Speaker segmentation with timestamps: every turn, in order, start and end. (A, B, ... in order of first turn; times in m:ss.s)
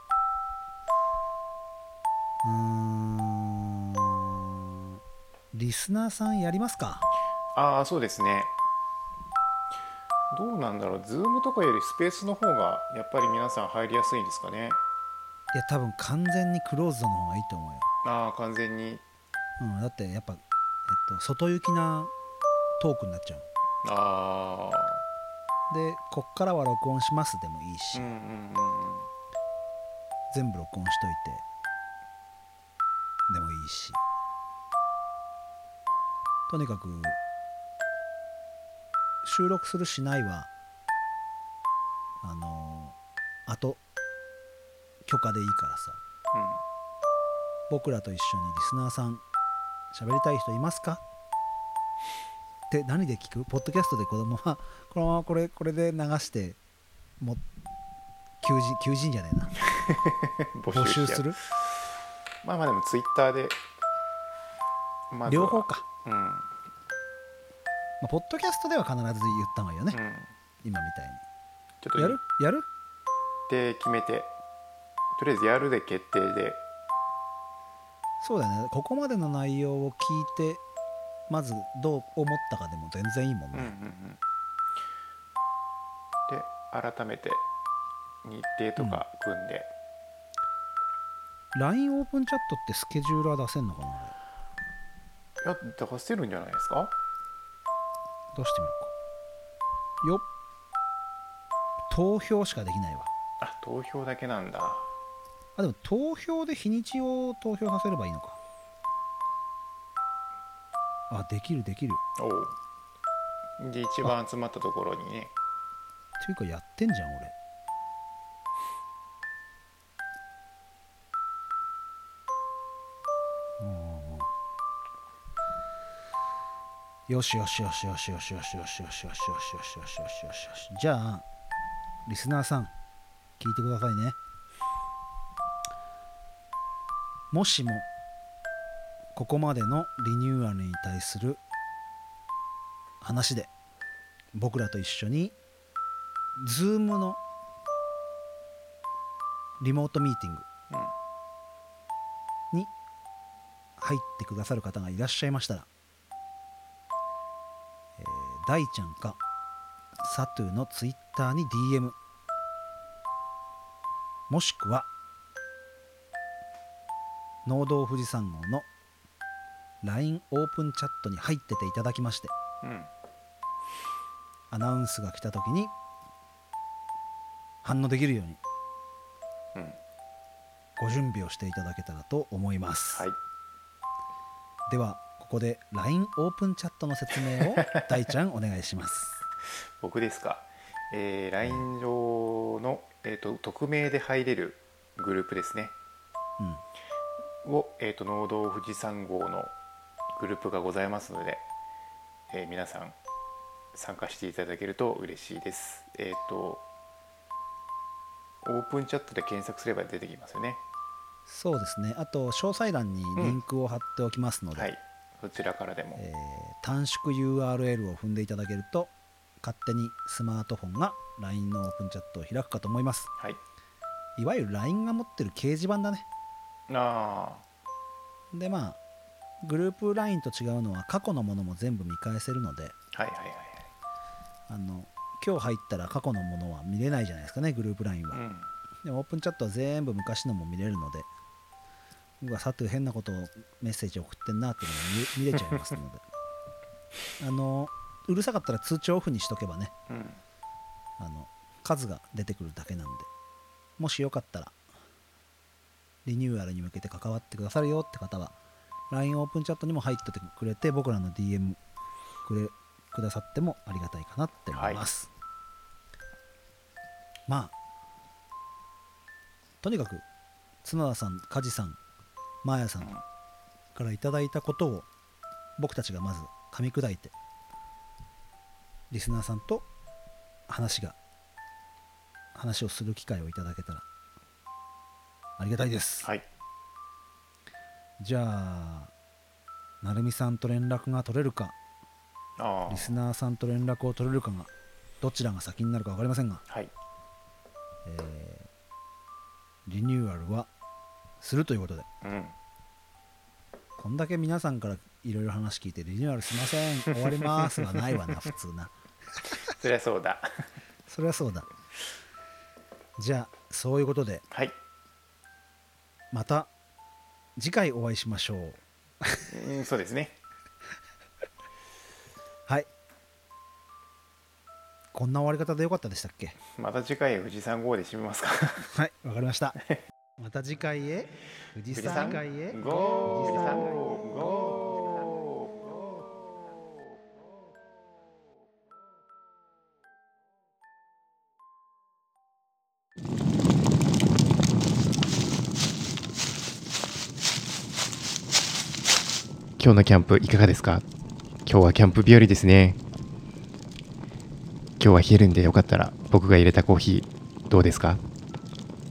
0:02.4-0:05.0 A
0:05.5-0:07.1 A
0:07.6-0:08.5 B
0:10.3-0:14.8 B
0:15.5-0:17.9 A
0:18.0-0:19.0 B
0:19.6-0:22.1 A
0:22.8-0:23.5 A
0:23.8-0:25.0 B
0:25.7-0:28.1 A
0:27.9-0:29.1 B
0:30.3-0:31.4 A
0:33.3-0:34.0 A
0:36.5-0:37.2 A
0:39.2-0:40.5 A
0:42.2-0:43.0 A
0:43.5-0:43.8 A
0:45.0-0:46.0 A
0:46.3-0:46.6 B
0:47.7-0:49.2 A
0:49.9-0:51.0 A
0:52.7-0:56.6 A
0:58.4-0:59.6 A
0:59.7-1:01.4 B
1:00.7-1:01.4 A
1:02.4-1:03.6 B
1:05.1-1:06.5 B
1:05.2-1:05.8 A
1:08.0-1:10.0 A
1:09.9-1:10.3 B
1:10.6-1:11.2 A
1:11.8-1:12.2 B
1:12.0-1:12.7 A
1:13.5-1:14.3 B
1:15.2-1:16.6 B
1:18.2-1:20.6 A
1:21.3-1:23.7 A
1:23.5-1:24.2 B
1:26.3-1:27.4 B
1:28.2-1:29.7 B
1:31.5-1:34.1 A
1:35.4-1:36.9 B
1:38.3-1:38.9 A
1:41.9-1:43.1 A
1:43.4-1:44.9 B
1:45.6-1:48.4 A
1:51.1-1:52.0 A
1:52.2-1:52.5 B
1:53.6-1:55.3 B
1:56.2-1:57.3 A
2:03.6-2:04.3 A
2:07.1-2:11.2 A
2:12.1-2:12.7 A
2:13.4-2:14.2 A
2:17.3-2:17.9 A
2:19.1-2:21.4 A
2:23.0-2:23.5 A
2:24.3-2:25.4 A
2:26.4-2:27.2 A
2:29.6-2:30.4 A
2:33.8-2:35.7 A
2:38.0-2:39.2 A
2:40.0-2:42.0 A
2:44.3-2:44.9 A
2:47.4-2:48.7 A
2:49.8-2:52.3 A
2:52.6-2:52.9 B
2:54.5-2:55.7 A
2:57.6-2:58.4 A
3:00.8-3:03.1 A
3:04.7-3:09.2 A
3:09.8-3:15.7 B
3:17.4-3:19.5 B
3:20.1-3:21.4 B
3:22.3-3:23.0 B
3:23.7-3:26.6 B
3:28.4-3:30.6 B
3:31.3-3:34.7 A
3:34.6-3:36.0 B
3:36.0-3:43.1 A
3:44.2-3:46.1 A
3:46.7-3:47.4 B
3:48.3-3:48.8 A
3:49.4-3:52.7 A
3:52.9-3:53.7 B
3:54.5-3:58.2 A
3:58.1-3:58.4 B
3:58.8-4:01.1 A
4:02.2-4:06.0 A
4:07.2-4:09.7 A
4:09.9-4:10.2 B
4:11.0-4:13.1 A
4:13.8-4:14.6 A
4:16.0-4:18.3 A
4:18.9-4:21.6 A
4:22.2-4:25.1 A
4:24.5-4:24.8 B
4:27.3-4:27.5 A
4:29.6-4:30.0 A
4:30.6-4:31.8 A
4:32.4-4:32.9 A
4:33.7-4:34.9 A
4:35.6-4:37.1 A
4:38.9-4:39.6 A
4:40.5-4:41.0 A
4:42.3-4:43.9 A
4:45.4-4:46.1 A
4:48.0-4:48.9 A
4:49.8-4:51.6 A
4:52.4-4:52.9 B
4:52.7-4:56.4 A
4:57.8-4:58.5 A
4:59.6-5:00.5 A
5:01.2-5:01.9 A
5:02.0-5:02.4 B
5:03.8-5:08.7 A
5:09.4-5:10.3 B
5:10.9-5:11.5 A
5:13.0-5:14.2 A
5:16.1-5:16.5 A
5:17.4-5:19.3 A
5:19.3-5:20.1 B
5:24.9-5:26.4 A
5:26.6-5:28.7 B
5:28.6-5:29.6 A
5:30.2-5:34.7 A
5:31.7-5:35.5 B
5:49.6-5:50.8 C
5:51.4-5:52.8 C
5:54.8-5:58.0 C